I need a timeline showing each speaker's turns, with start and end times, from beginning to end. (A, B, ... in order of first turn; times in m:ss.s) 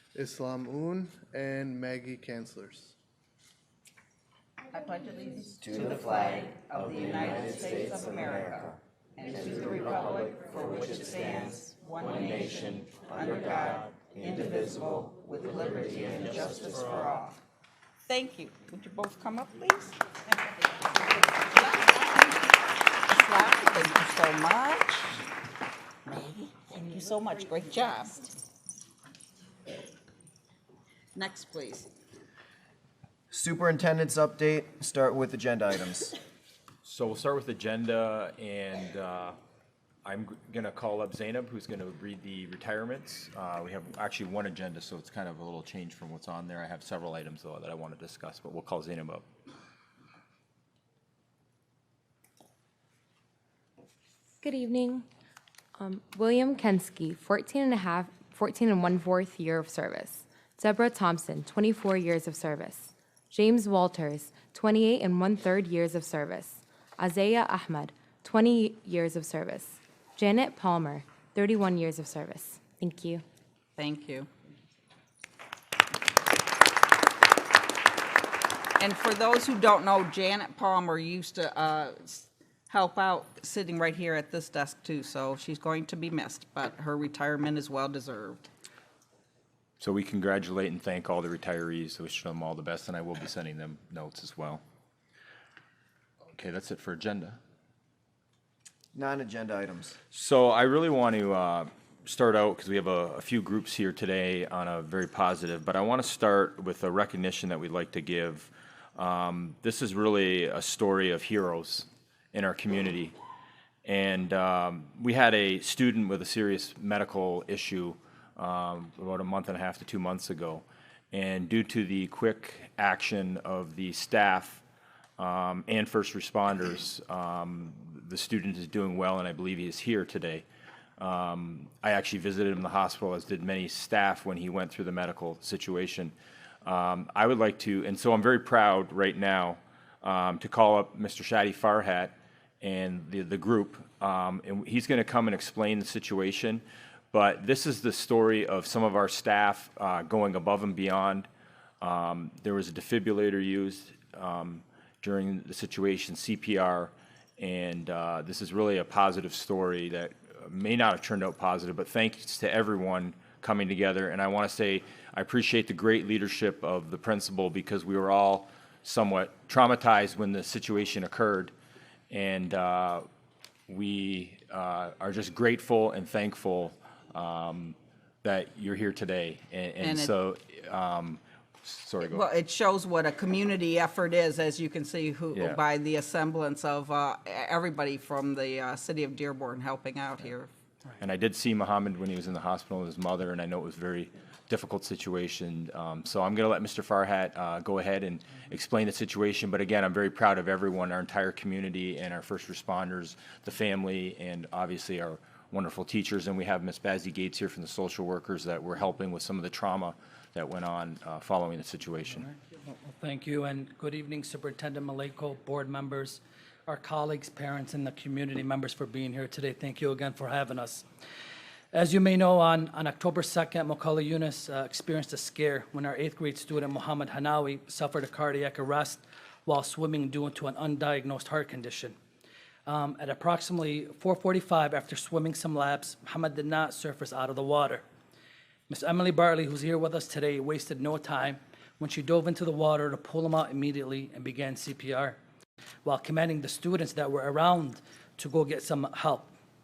0:00.1-0:03.0 A
0:04.7-0:17.4 B
0:18.0-0:20.0 B
0:21.0-0:25.3 B
0:26.0-0:28.4 B
0:31.1-0:31.9 B
0:33.3-0:36.2 C
0:36.8-0:39.4 D
0:40.0-0:49.2 D
0:54.4-0:55.0 E
0:55.8-1:13.2 E
1:13.8-1:14.3 B
1:18.8-1:28.4 B
1:29.8-1:34.6 D
1:36.3-1:37.4 D
1:38.9-1:40.0 C
1:40.1-1:53.2 D
1:53.8-2:04.6 D
2:05.2-2:10.4 D
2:11.0-2:31.3 D
2:31.8-2:51.5 D
2:52.1-2:53.0 D
2:53.7-3:02.3 D
2:59.8-3:00.1 B
3:02.0-3:10.5 B
3:05.3-3:05.6 D
3:11.0-3:32.3 D
3:32.2-3:40.8 F
3:41.7-3:52.0 F
3:52.6-3:57.8 F
3:58.7-4:05.2 F
4:05.8-4:09.3 F